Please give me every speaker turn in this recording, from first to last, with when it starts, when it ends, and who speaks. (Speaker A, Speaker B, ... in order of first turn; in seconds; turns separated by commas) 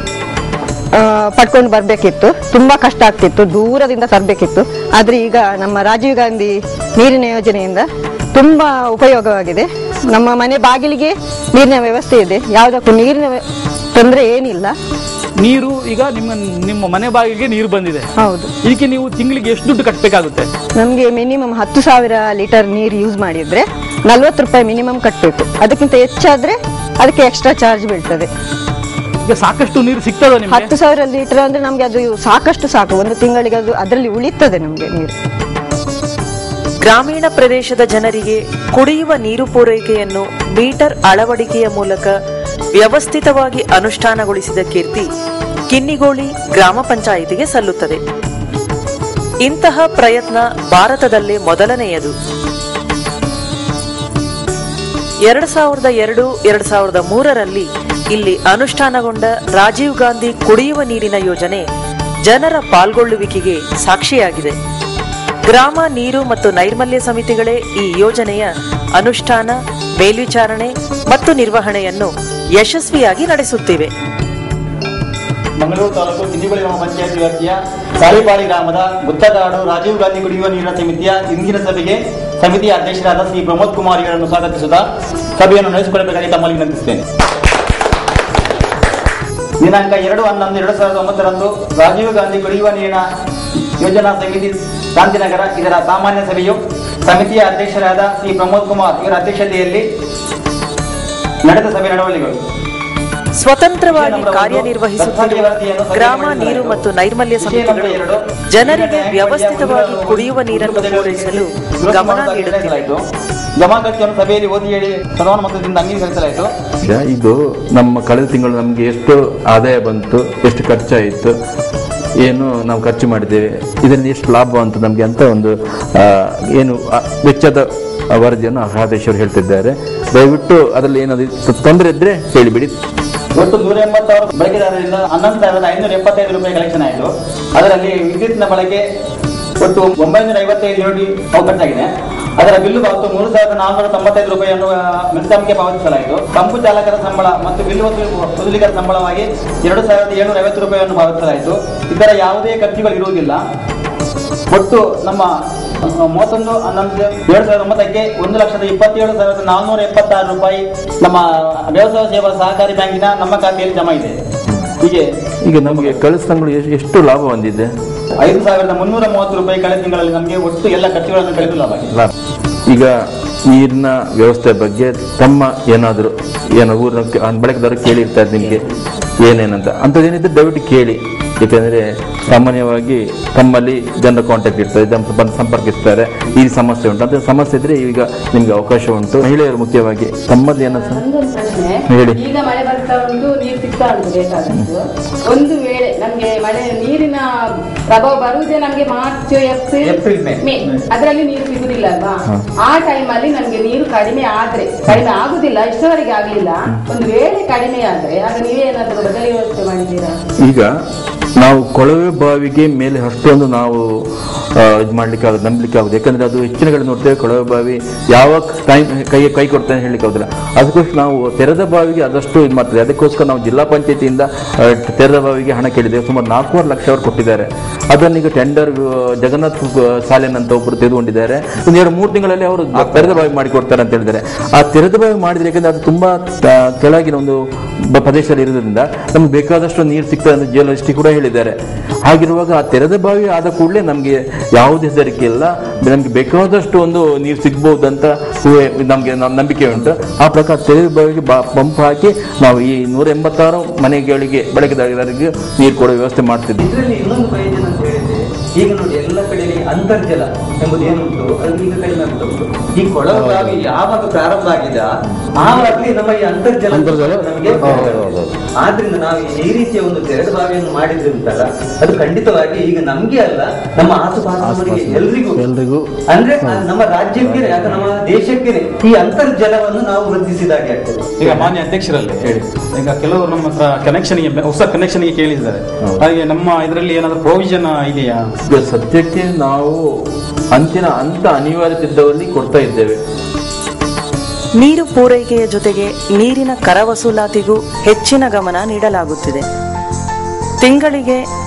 Speaker A: 0.9-13.4, Speaker A: 13.9-14.7, Speaker B: 15.4-18.1, Speaker A: 18.2-18.5, Speaker B: 18.6-20.5, Speaker A: 20.8-28.3, Speaker B: 29.2-30.7, Speaker A: 30.4-35.1, Speaker C: 36.8-42.1, Speaker C: 42.8-45.1, Speaker C: 45.7-48.0, Speaker C: 49.5-52.1, Speaker C: 55.3-61.6, Speaker C: 62.2-64.5, Speaker C: 65.5-73.9, Speaker D: 75.6-84.8, Speaker D: 85.4-87.0, Speaker D: 89.6-93.0, Speaker D: 93.8-99.8, Speaker D: 101.5-102.4, Speaker C: 103.4-112.9, Speaker D: 103.9-106.8, Speaker D: 107.4-113.0, Speaker D: 113.6-116.5, Speaker E: 116.8-121.3, Speaker E: 122.2-127.6, Speaker E: 128.1-132.7, Speaker D: 133.3-138.8, Speaker D: 139.6-153.4, Speaker D: 154.5-155.3, Speaker D: 156.1-164.1, Speaker E: 165.4-167.7, Speaker D: 165.6-166.0, Speaker D: 168.2-171.9, Speaker E: 172.7-172.9, Speaker E: 173.5-178.6, Speaker E: 179.2-191.0, Speaker F: 190.7-197.2, Speaker E: 191.9-192.2, Speaker F: 197.9-210.1, Speaker G: 199.8-200.4, Speaker E: 210.4-210.7, Speaker E: 211.4-213.8, Speaker E: 214.6-237.4, Speaker E: 237.9-256.6, Speaker G: 256.6-275.5, Speaker H: 263.2-263.6, Speaker H: 265.4-265.6, Speaker H: 266.7-268.3, Speaker H: 274.4-275.8, Speaker G: 276.1-281.2, Speaker E: 277.4-277.8, Speaker D: 281.2-288.1, Speaker E: 281.2-281.5, Speaker E: 285.8-286.1, Speaker B: 286.4-286.8, Speaker E: 288.5-289.8, Speaker E: 290.5-293.0, Speaker C: 294.6-299.4, Speaker C: 300.6-301.2